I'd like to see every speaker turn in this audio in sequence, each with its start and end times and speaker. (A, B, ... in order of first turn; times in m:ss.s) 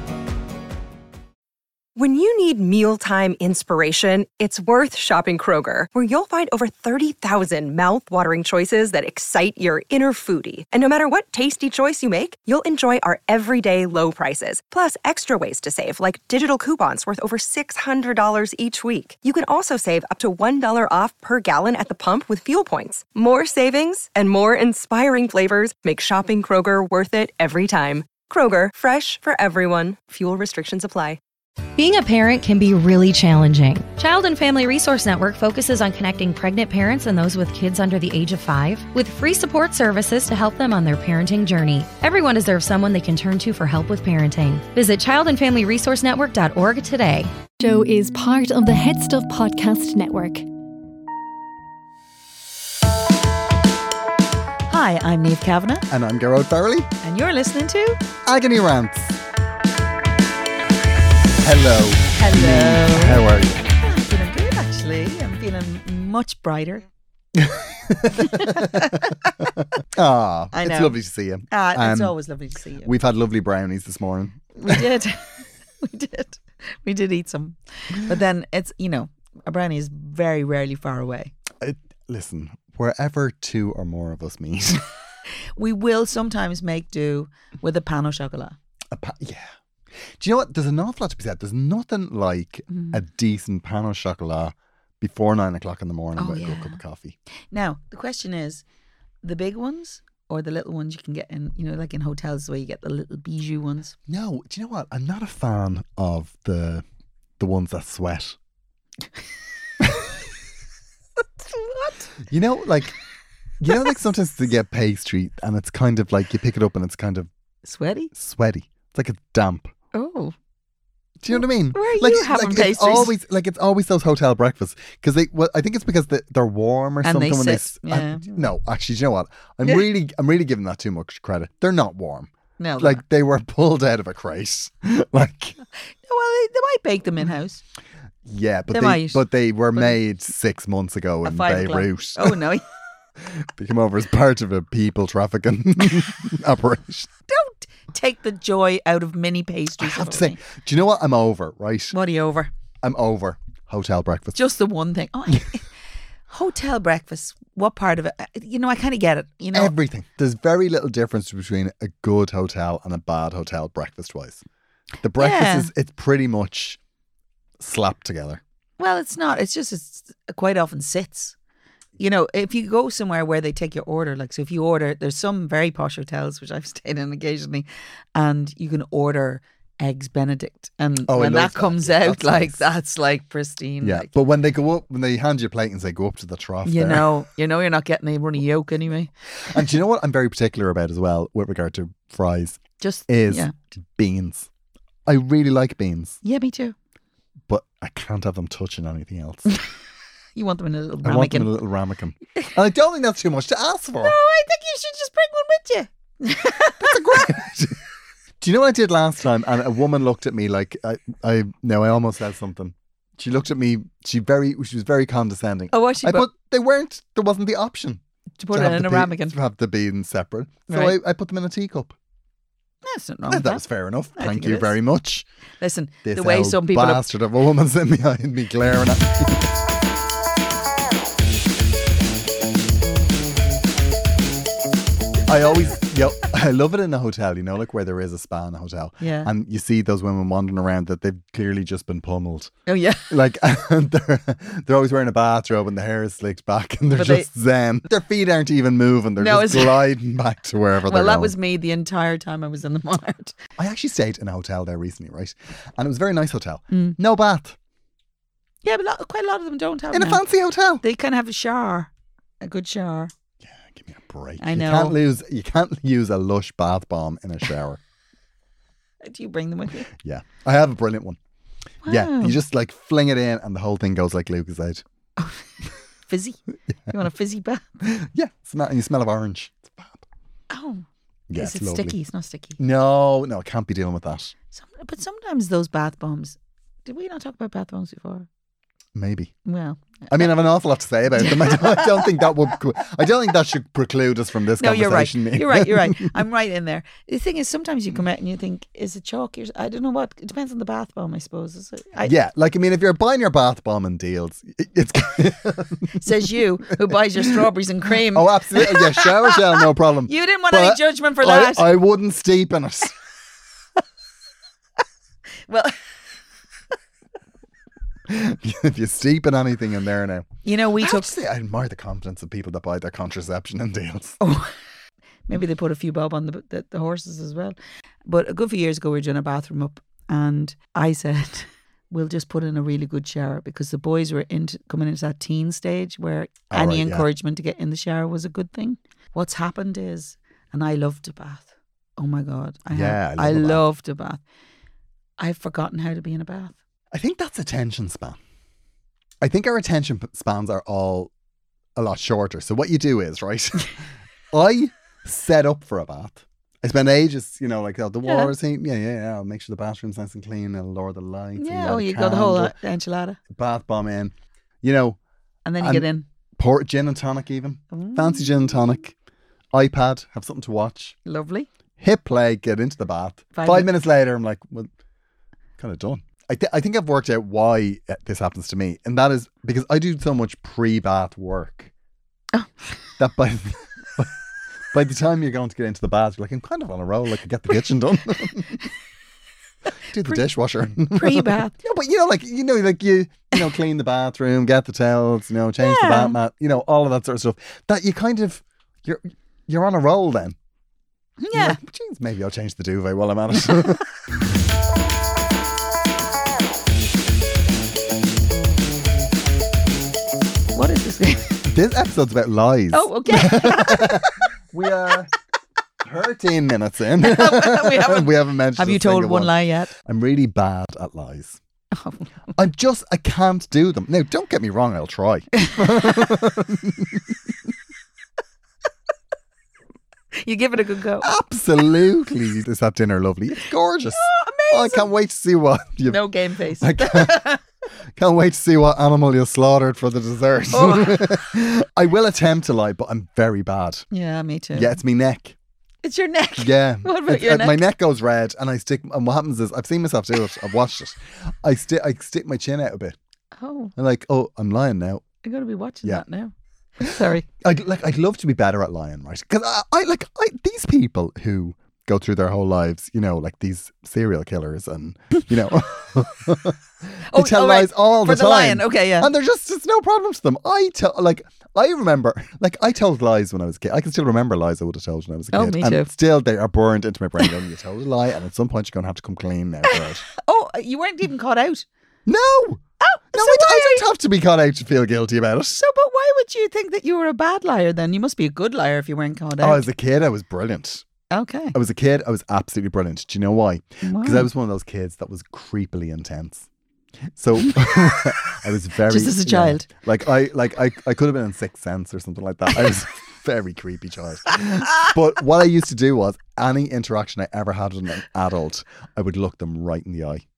0:02.0-0:31.2 A
0:31.8-0:47.3 B
0:47.6-0:50.4 C
0:54.7-0:55.9 D
0:55.9-0:56.9 E
0:57.0-0:58.0 D
0:58.2-0:59.2 E
1:01.4-1:03.6 E
1:02.1-1:03.2 D
1:03.8-1:06.9 D
1:07.3-1:12.2 E
1:08.2-1:09.4 D
1:10.5-1:11.0 D
1:11.5-1:12.9 D
1:12.8-1:14.8 E
1:14.6-1:21.3 D
1:21.6-1:24.8 E
1:25.6-1:28.6 D
1:28.9-1:29.5 E
1:30.2-1:37.2 E
1:32.7-1:33.0 D
1:36.2-1:36.8 D
1:37.5-1:38.6 D
1:39.2-1:43.9 D
1:44.1-1:46.8 E
1:47.4-1:48.4 E
1:49.8-1:50.1 E
1:51.5-1:52.0 D
1:52.3-1:52.9 E
1:53.6-1:57.3 E
1:57.6-1:58.1 D
1:58.1-1:59.7 E
1:59.9-2:00.3 D
2:01.2-2:15.6 E
2:01.3-2:03.1 D
2:07.0-2:08.4 D
2:12.6-2:13.0 D
2:16.1-2:17.6 D
2:18.2-2:22.4 E
2:18.7-2:19.2 D
2:21.2-2:22.6 D
2:23.2-2:27.1 E
2:27.3-2:30.4 D
2:29.8-2:32.0 E
2:31.9-2:32.5 D
2:32.8-2:34.4 E
2:34.3-2:35.7 D
2:36.3-2:39.7 D
2:39.5-2:44.4 E
2:45.0-2:46.8 E
2:45.2-2:45.7 D
2:47.6-2:48.4 E
2:48.8-2:51.3 D
2:52.0-3:04.1 D
3:01.1-3:02.6 E
3:03.8-3:07.1 E
3:06.6-3:09.1 D
3:09.5-3:14.5 E
3:12.8-3:13.6 D
3:15.1-3:16.2 E
3:16.2-3:16.8 D
3:17.5-3:19.4 E
3:20.4-3:21.5 D
3:21.0-3:24.2 E
3:24.0-3:27.1 D
3:26.8-3:27.8 E
3:28.4-3:41.9 E
3:35.7-3:36.3 D
3:38.4-3:39.4 D
3:40.7-3:41.0 D
3:42.8-3:43.6 D
3:43.3-3:45.2 E
3:44.2-3:44.8 D
3:45.6-3:47.1 D
3:46.0-3:49.5 E
3:55.2-4:02.5 E
3:59.0-3:59.3 D
4:02.7-4:03.1 D
4:03.1-4:11.3 E
4:06.9-4:07.3 D
4:09.2-4:09.9 D
4:10.8-4:13.3 D
4:13.6-4:17.6 E
4:16.7-4:17.0 D
4:18.6-4:20.2 D
4:19.9-4:20.8 E
4:20.8-4:21.9 D
4:22.4-4:23.1 D
4:23.4-4:27.8 E
4:24.4-4:25.0 D
4:29.0-4:29.9 D
4:29.9-4:31.2 E
4:31.8-4:32.4 D
4:31.9-4:34.8 E
4:35.2-4:37.7 D
4:36.7-4:36.9 E
4:37.8-4:40.0 E
4:40.5-4:42.6 D
4:41.3-4:42.0 E
4:42.6-4:44.3 E
4:44.5-4:48.3 D
4:48.9-4:49.3 E
4:49.4-4:50.2 D
4:50.1-4:56.2 E
4:51.2-4:52.1 D
4:54.6-5:02.1 D
5:02.0-5:07.3 E
5:06.0-5:09.4 D
5:07.9-5:12.9 E
5:10.1-5:11.8 D
5:15.5-5:15.8 D
5:18.1-5:24.2 E
5:20.4-5:21.1 D
5:24.2-5:24.5 D
5:25.3-5:44.2 D
5:36.5-5:37.1 E
5:42.7-5:43.6 E
5:45.2-5:46.6 D
5:46.9-5:48.2 E
5:49.2-5:51.1 E
5:51.8-5:53.8 E
5:54.3-6:02.6 E
5:58.0-5:58.3 D
6:01.4-6:03.2 D
6:03.3-6:05.0 E
6:05.4-6:06.0 D
6:05.6-6:08.9 E
6:07.7-6:08.8 D
6:09.5-6:11.0 E
6:11.0-6:11.5 D
6:11.8-6:14.7 E
6:13.3-6:13.7 D
6:15.6-6:21.7 E
6:23.0-6:24.1 E
6:24.7-6:28.5 E
6:29.9-6:40.4 E
6:30.9-6:31.6 D
6:35.6-6:36.2 D
6:41.2-6:41.6 D
6:41.3-6:43.8 E
6:50.5-6:51.4 D
6:51.4-6:55.1 E
6:52.7-6:54.1 D
6:55.8-7:01.4 E
6:57.0-6:59.7 D
7:01.7-7:02.3 D
7:02.3-7:07.1 E
7:10.2-7:11.1 D
7:11.0-7:16.0 E
7:14.0-7:14.9 D
7:15.9-7:17.4 D
7:16.6-7:17.3 E
7:18.0-7:23.9 E
7:20.5-7:21.3 D
7:23.9-7:24.8 D
7:24.5-7:25.4 E
7:25.8-7:27.6 D
7:26.4-7:33.0 E
7:33.4-7:33.7 D
7:33.8-7:35.0 E
7:35.2-7:37.2 D
7:36.8-8:00.1 E
7:47.1-7:49.1 D
7:55.3-7:55.9 D
7:59.7-8:01.6 D
8:02.1-8:02.6 E
8:02.8-8:03.9 D
8:03.1-8:05.6 E
8:05.6-8:09.6 D
8:09.4-8:10.8 E
8:11.1-8:11.6 D
8:11.5-8:16.5 E
8:13.8-8:14.3 D
8:17.1-8:30.2 E
8:18.9-8:19.6 D